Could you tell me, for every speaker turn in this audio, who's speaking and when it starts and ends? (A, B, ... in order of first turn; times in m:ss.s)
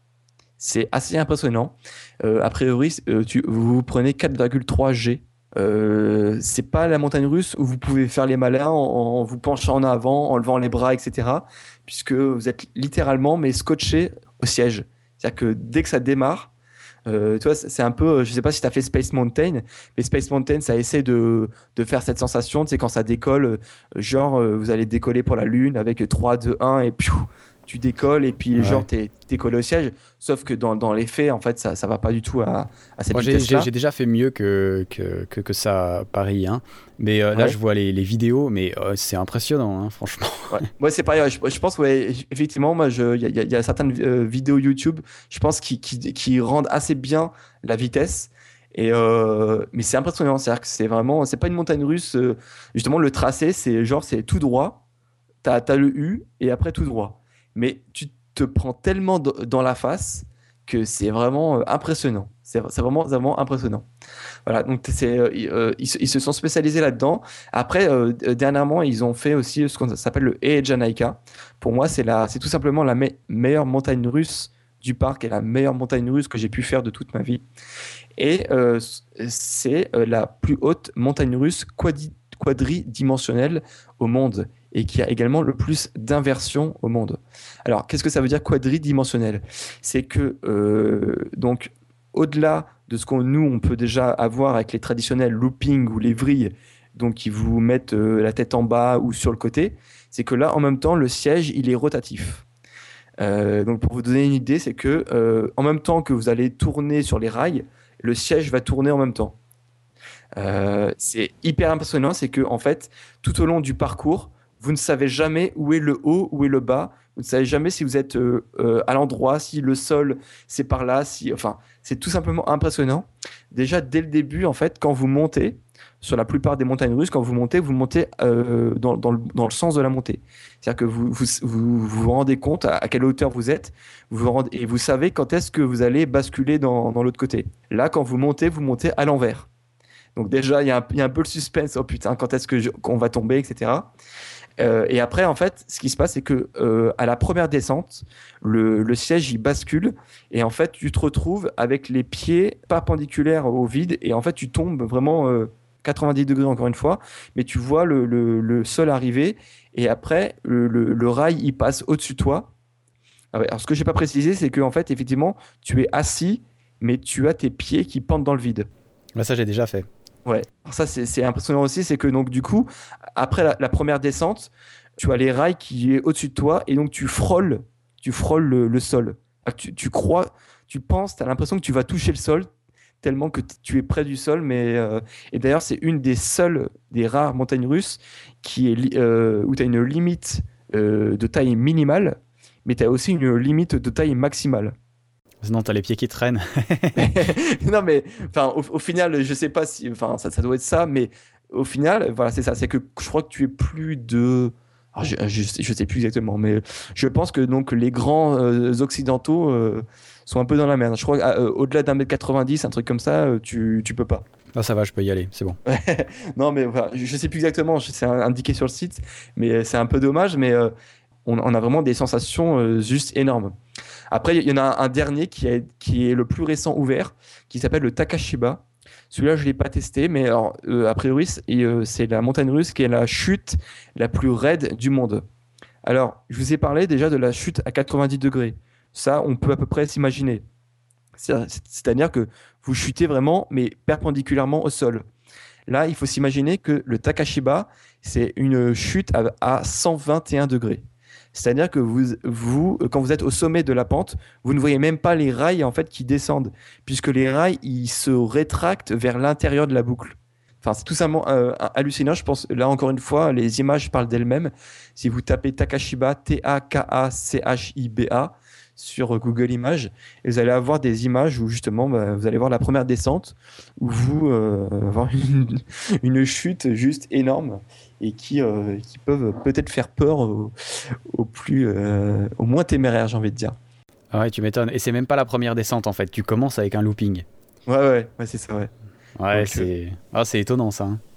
0:00.6-0:16.5 A
0:17.1-0:33.7 A
0:28.6-0:28.8 B
0:33.1-0:40.6 B
0:40.5-0:54.8 A
0:55.4-1:03.9 A
1:04.5-1:17.4 A
1:18.2-1:42.4 A
1:43.2-1:49.4 A
1:50.4-2:19.5 A
2:20.2-2:23.9 A
2:24.6-2:42.5 A
2:43.3-2:48.7 A
2:49.2-2:49.9 B
2:50.2-3:02.5 A
3:03.0-3:14.8 A
3:15.4-3:17.1 B
3:17.0-3:34.2 A
3:34.6-3:35.6 B
3:35.7-3:40.7 A
3:41.2-3:43.6 A
3:44.1-3:55.2 A
3:55.8-4:00.4 A
4:01.2-4:05.1 A
4:05.7-4:10.8 A
4:11.3-4:43.6 A
4:44.1-4:47.2 B
4:47.7-4:48.7 A
4:49.2-4:51.0 B
4:49.3-4:49.7 A